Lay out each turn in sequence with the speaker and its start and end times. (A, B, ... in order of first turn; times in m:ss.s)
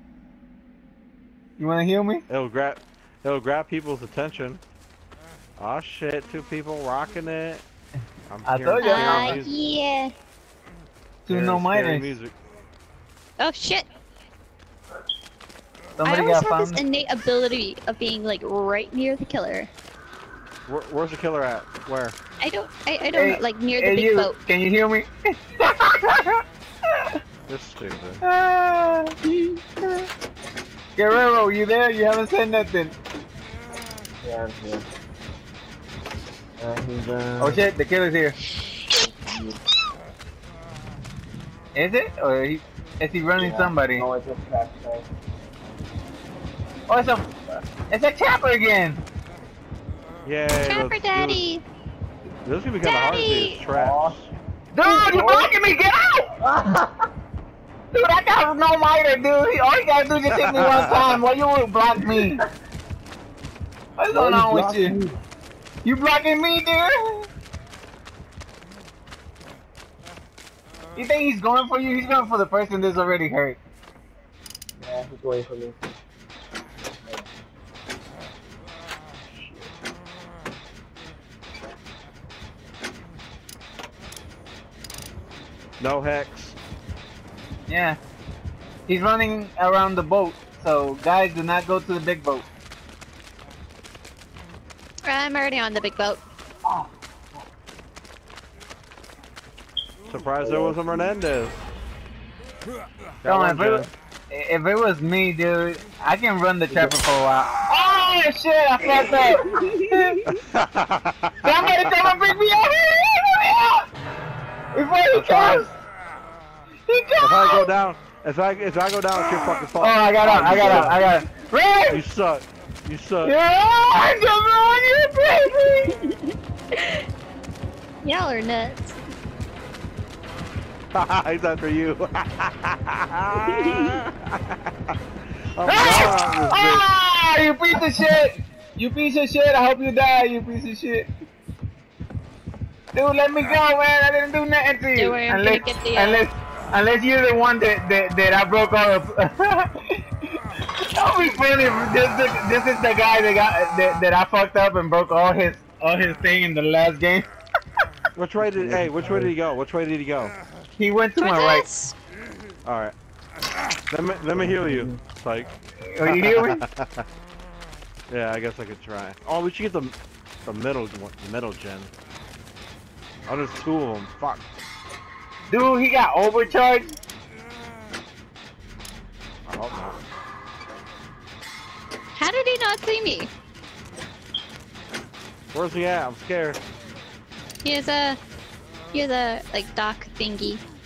0:01.6-0:02.2 A
0:02.3-0:04.6 B
0:05.6-0:07.6 B
0:08.3-0:09.6 B
0:08.4-0:09.4 A
0:08.8-0:10.1 C
0:11.2-0:12.1 A
0:11.3-0:12.3 B
0:13.4-0:13.8 C
0:16.0-0:16.8 A
0:16.0-0:19.7 C
0:20.7-0:22.2 B
0:22.4-0:24.4 C
0:23.1-0:26.4 A
0:27.5-0:28.2 B
0:28.2-0:29.2 A
0:31.0-0:32.9 A
0:34.2-0:34.8 D
0:36.6-0:37.6 D
0:37.4-0:38.4 A
0:39.0-0:39.6 D
0:41.7-0:44.1 A
0:43.4-0:45.1 D
0:46.9-0:47.3 A
0:47.9-0:49.0 A
0:50.2-0:51.4 B
0:50.7-0:51.6 C
0:52.4-0:54.3 B
0:52.8-0:53.6 C
0:53.7-0:54.2 D
0:54.7-0:56.3 A
0:54.8-0:55.5 D
0:56.4-0:57.0 D
0:57.9-1:02.4 A
1:00.3-1:01.2 B
1:04.0-1:05.0 A
1:04.1-1:05.2 D
1:05.8-1:07.3 A
1:11.0-1:13.6 A
1:14.8-1:15.8 D
1:25.8-1:26.6 B
1:27.7-1:28.0 A
1:28.9-1:32.4 A
1:35.0-1:36.2 C
1:40.1-1:41.6 B
1:40.4-1:41.1 D
1:43.2-1:43.9 B
1:43.2-1:50.2 A
1:49.2-1:50.2 D
1:50.3-1:52.1 B
1:51.4-1:53.9 A
1:54.7-1:55.7 A
1:55.1-1:55.7 B
1:56.9-1:57.7 A
1:57.2-2:01.0 B
1:59.8-2:02.0 A
2:00.3-2:00.9 D
2:01.9-2:03.3 B
2:03.2-2:06.0 A
2:06.0-2:07.0 C
2:08.0-2:08.9 C
2:10.9-2:14.9 B
2:13.6-2:13.9 C
2:15.5-2:16.8 B
2:15.6-2:21.1 A
2:22.9-2:30.0 A
2:25.0-2:26.2 C
2:30.9-2:37.3 A
2:38.2-2:40.3 B
2:38.4-2:39.3 D
2:40.8-2:41.6 A
2:41.2-2:41.9 C
2:42.6-2:42.9 B
2:43.9-2:45.5 B
2:44.4-2:45.0 D
2:45.9-2:46.6 A
2:46.0-2:47.0 B
2:48.1-2:49.9 B
2:50.4-2:51.9 B
2:53.2-2:54.4 B
2:55.5-2:56.9 A
2:59.5-3:00.0 B
3:02.2-3:03.3 C
3:05.5-3:06.6 B
3:07.6-3:08.2 C
3:08.9-3:10.6 C